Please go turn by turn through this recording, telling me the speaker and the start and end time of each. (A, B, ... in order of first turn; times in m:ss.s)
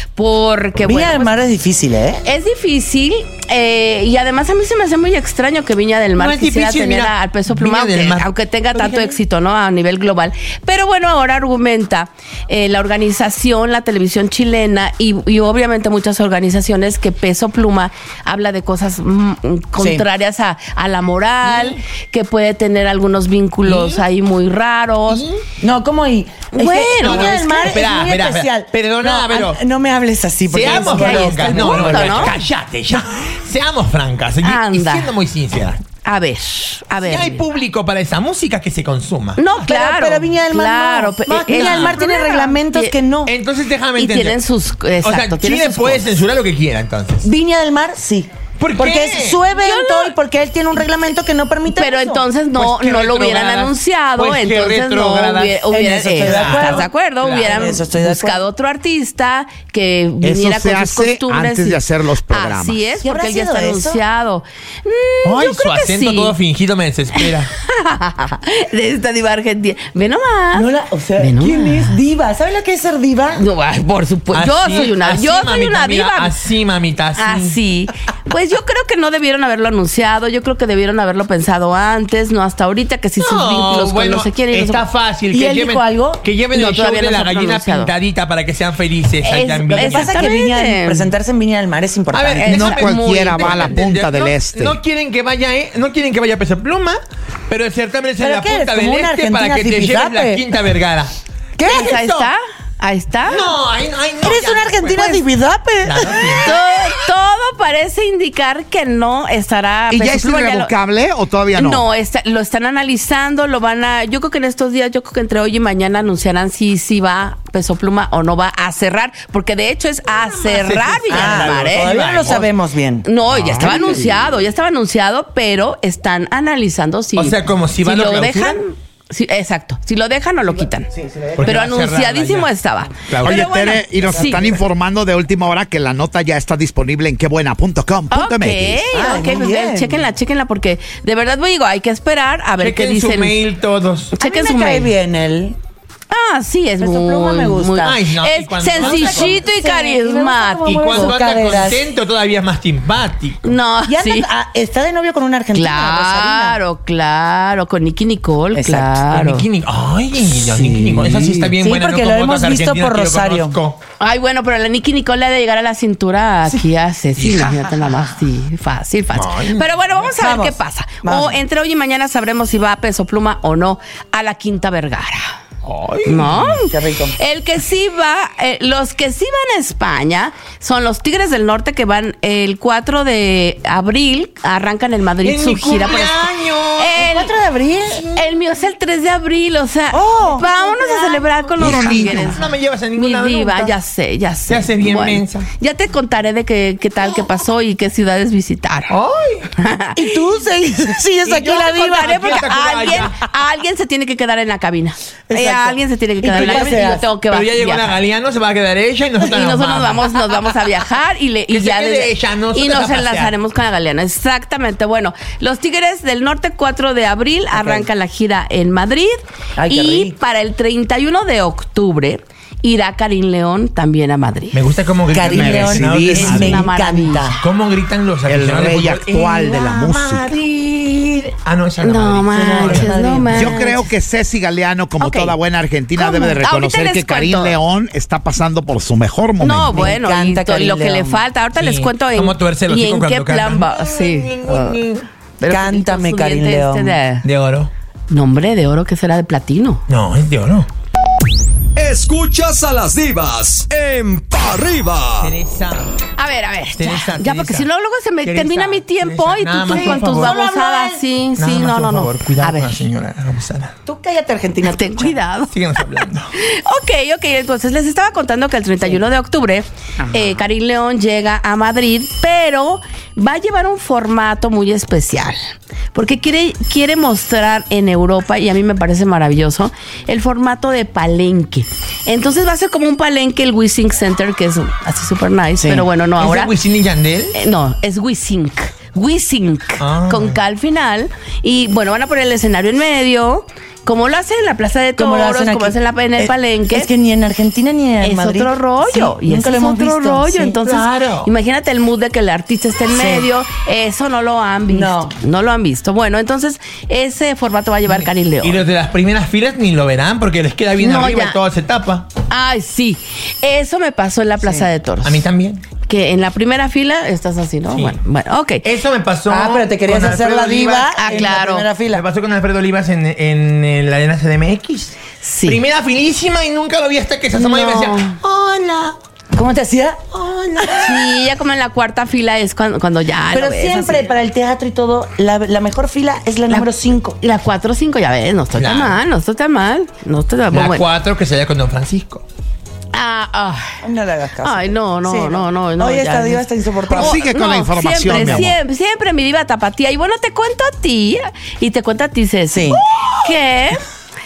0:00.1-0:01.3 A
0:00.8-0:02.2 B
0:02.2-0:25.2 A
0:06.2-0:08.3 C
0:08.7-0:09.2 B
0:19.8-0:20.0 B
0:21.4-0:21.8 C
0:23.6-0:24.1 C
0:25.1-0:25.4 C
0:25.6-0:32.4 B
0:26.5-0:27.7 A
0:27.0-0:29.6 C
0:30.5-0:35.8 C
0:30.6-0:32.4 A
0:34.4-0:35.1 A
0:36.0-0:37.4 A
0:37.0-0:39.4 C
0:39.4-0:43.0 A
0:39.6-0:43.3 B
0:41.5-0:42.2 C
0:43.2-0:44.4 C
0:44.0-0:46.2 A
0:45.0-0:47.3 C
0:47.2-0:52.2 B
0:48.6-0:49.5 C
0:49.6-0:50.1 A
0:51.7-1:06.3 A
0:52.5-0:55.7 C
0:55.7-0:58.4 B
0:56.2-0:57.8 C
1:00.2-1:02.8 D
1:03.0-1:04.0 B
1:05.2-1:07.5 C
1:07.2-1:12.0 A
1:10.5-1:13.4 B
1:13.4-1:16.4 A
1:14.3-1:17.6 C
1:17.2-1:24.8 A
1:23.2-1:30.4 C
1:25.3-1:26.2 B
1:26.5-1:27.9 A
1:29.2-1:31.1 A
1:29.3-1:32.7 B
1:32.1-1:41.1 C
1:32.4-1:33.7 A
1:32.5-1:34.8 D
1:38.2-1:40.4 B
1:41.6-1:42.1 B
1:41.7-1:43.4 A
1:41.7-1:42.3 C
1:43.3-1:45.2 C
1:44.2-1:46.5 B
1:45.8-1:46.5 C
1:46.4-1:50.7 A
1:49.9-1:51.8 D
1:51.5-2:02.3 A
2:00.3-2:02.5 C
2:01.1-2:04.0 B
2:03.0-2:10.9 A
2:03.3-2:04.0 C
2:07.2-2:08.6 C
2:10.5-2:11.6 B
2:11.4-2:12.5 C
2:11.4-2:14.6 A
2:13.0-2:13.5 C
2:13.2-2:18.9 D
2:14.1-2:14.6 B
2:18.1-2:23.4 A
2:18.9-2:20.1 B
2:22.6-2:24.2 C
2:24.1-2:24.9 A
2:24.2-2:25.6 B
2:26.1-2:31.2 A
2:26.8-2:28.0 B
2:27.8-2:29.4 C
2:28.7-2:31.9 B
2:30.6-2:33.6 C
2:33.4-2:34.3 A
2:33.9-2:36.6 B
2:35.5-2:39.5 A
2:38.6-2:39.0 B
2:39.1-2:43.8 C
2:40.3-2:43.6 B
2:44.0-2:55.4 A
2:49.1-2:50.1 C
2:50.2-2:51.4 B
2:55.6-2:56.6 C
2:56.1-3:07.3 A
2:56.7-2:57.2 B
3:05.2-3:07.0 C
3:06.9-3:08.0 B
3:07.9-3:08.3 C
3:08.1-3:19.0 A
3:09.9-3:12.1 B
3:11.6-3:12.4 D
3:12.3-3:13.8 C
3:14.5-3:15.5 C
3:18.9-3:19.5 C
3:19.6-3:20.1 A
3:20.0-3:22.2 B
3:21.2-3:23.2 C
3:21.5-3:28.0 A
3:25.3-3:27.1 B
3:26.3-3:30.1 C
3:29.2-3:39.2 A
3:31.5-3:33.4 C
3:37.5-3:37.9 B
3:39.6-3:40.2 B
3:39.7-3:44.6 A
3:44.5-3:46.7 C
3:45.1-3:47.4 B
3:45.2-3:46.6 D
3:46.1-3:47.4 A
3:47.4-3:53.0 C
3:48.3-3:50.3 D
3:51.8-3:53.9 A
3:52.3-3:53.6 B
3:53.3-3:59.9 D
3:55.0-3:55.4 A
3:56.0-3:57.6 A
3:59.4-4:04.8 A
3:59.7-4:01.2 B
4:01.6-4:05.1 C
4:05.4-4:07.2 A
4:05.4-4:07.0 B
4:07.2-4:07.7 C
4:08.1-4:09.8 A
4:09.9-4:10.7 C
4:11.8-4:15.3 E
4:15.2-4:16.0 C
4:16.2-4:22.8 A
4:16.7-4:17.7 C
4:18.2-4:20.4 C
4:19.7-4:21.0 B
4:21.4-4:23.7 C
4:23.8-4:25.2 B
4:24.6-4:25.5 A
4:25.5-4:26.3 C
4:26.4-4:35.4 A
4:35.9-4:46.5 A
4:45.6-4:45.9 B
4:46.2-4:47.4 C
4:47.3-4:56.9 A
4:49.8-4:50.4 C
4:55.0-5:00.6 B
4:58.0-5:08.6 A
5:00.6-5:01.3 C
5:02.9-5:03.3 B
5:04.7-5:05.2 B
5:07.9-5:12.1 C
5:10.8-5:11.4 A
5:12.3-5:15.3 A
5:14.4-5:14.7 B
5:15.0-5:15.6 C
5:15.9-5:18.6 A
5:17.7-5:18.0 C
5:18.6-5:21.4 C
5:19.3-5:22.0 B
5:21.0-5:21.7 A
5:21.9-5:29.0 C
5:25.2-5:25.6 A
5:27.4-5:28.2 A
5:29.3-5:30.0 B
5:30.1-5:30.9 C
5:30.6-5:34.1 A
5:33.3-5:37.2 B
5:36.5-5:40.8 A
5:38.5-5:39.0 C
5:40.5-5:42.2 C
5:42.9-5:43.8 A
5:43.8-5:47.2 B
5:44.4-5:53.8 A
5:46.9-5:48.6 D
5:48.1-5:48.5 B
5:52.5-5:52.8 B